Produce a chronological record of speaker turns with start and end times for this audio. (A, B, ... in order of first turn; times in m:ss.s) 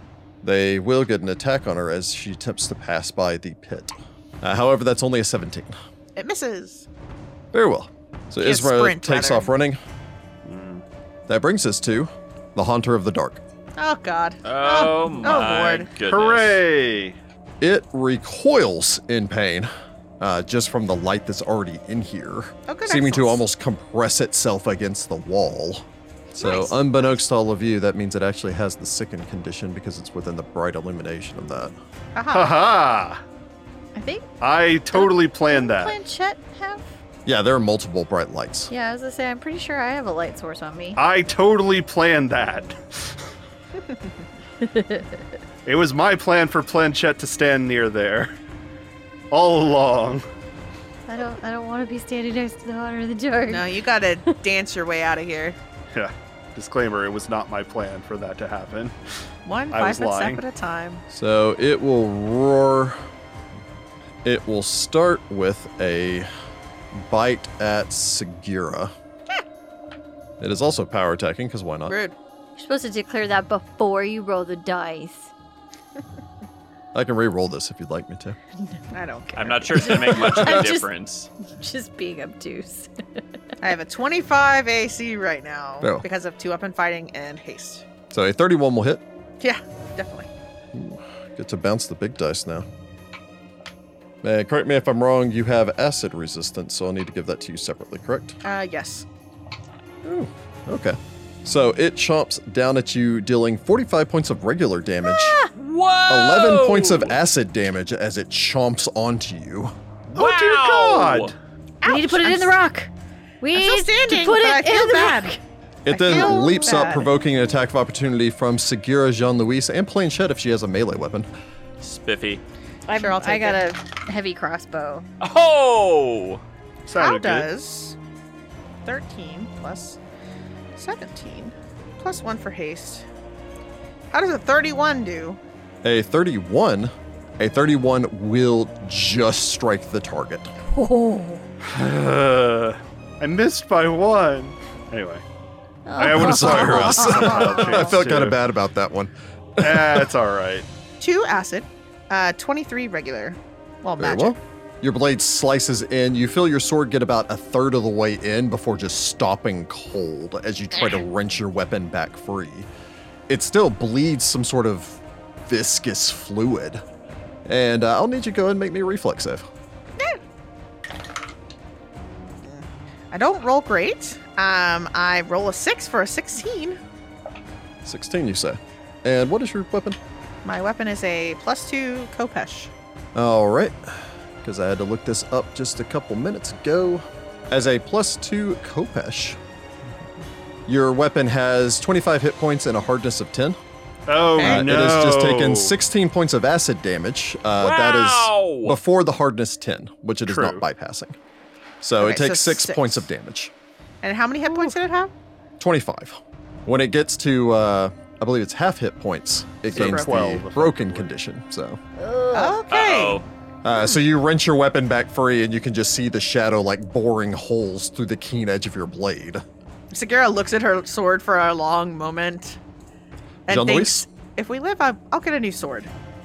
0:00.4-0:05.8 A
0:06.2-0:06.9 B
0:07.5-0:09.8 A
0:08.4-0:09.5 B
0:10.4-0:10.8 C
0:11.3-0:13.4 A
0:13.8-0:15.9 B
0:14.4-0:16.6 D
0:16.0-0:17.2 C
0:17.6-0:31.8 A
0:22.7-0:23.4 B
0:26.4-0:26.7 B
0:32.2-0:32.6 B
0:32.3-0:33.2 C
0:34.0-0:34.3 E
0:34.4-0:36.0 C
0:34.9-0:36.8 E
0:37.3-0:38.7 A
0:38.7-0:41.0 E
0:41.0-0:43.2 C
0:44.6-0:45.2 E
0:45.7-0:48.3 C
0:49.3-0:50.2 C
0:51.1-0:53.8 E
0:53.5-0:55.6 B
0:55.9-0:59.0 C
0:59.5-1:01.0 B
0:59.7-1:00.4 C
1:01.1-1:03.0 A
1:04.2-1:06.3 A
1:06.9-1:08.9 A
1:10.4-1:12.0 A
1:11.9-1:12.2 B
1:12.6-1:15.3 E
1:16.9-1:18.4 A
1:18.9-1:20.1 B
1:19.4-1:21.3 D
1:19.7-1:20.9 E
1:21.5-1:23.2 E
1:23.6-1:27.8 B
1:28.1-1:29.0 A
1:29.4-1:30.3 B
1:30.7-1:32.7 A
1:34.2-1:38.4 A
1:38.4-1:39.1 B
1:40.0-1:45.4 A
1:45.1-1:45.5 E
1:45.5-1:47.2 D
1:46.1-1:49.7 A
1:50.1-1:51.4 C
1:50.2-1:51.3 D
1:51.8-1:52.6 B
1:51.8-1:55.4 E
1:53.5-1:55.4 B
1:55.8-2:01.3 A
1:55.9-1:57.1 B
1:56.0-1:56.9 E
2:01.8-2:02.4 D
2:02.9-2:05.1 E
2:02.9-2:03.6 B
2:05.2-2:06.4 D
2:06.9-2:07.5 C
2:06.9-2:08.0 B
2:08.8-2:10.0 B
2:10.8-2:13.0 B
2:14.1-2:15.4 B
2:15.8-2:20.5 A
2:20.7-2:21.4 E
2:21.7-2:25.2 C
2:25.9-2:27.9 E
2:26.0-2:28.4 C
2:26.0-2:30.1 A
2:29.6-2:30.7 C
2:31.0-2:34.4 B
2:34.0-2:42.7 A
2:43.3-2:46.8 A
2:47.5-2:49.5 A
2:52.4-2:56.8 B
2:57.8-3:00.0 A
3:00.4-3:02.7 B
3:03.2-3:09.4 A
3:10.7-3:13.6 A
3:14.1-3:15.7 C
3:14.3-3:14.7 B
3:14.4-3:21.2 A
3:17.6-3:18.8 D
3:20.3-3:20.6 C
3:21.8-3:23.5 A
3:22.0-3:23.0 B
3:24.0-3:25.1 B
3:25.6-3:31.8 A
3:29.7-3:31.1 C
3:29.7-3:30.1 B
3:32.0-3:32.6 E
3:32.3-3:34.0 B
3:32.7-3:33.3 D
3:33.6-3:39.4 A
3:39.9-3:42.6 B
3:43.5-3:45.9 B
3:43.5-3:44.0 A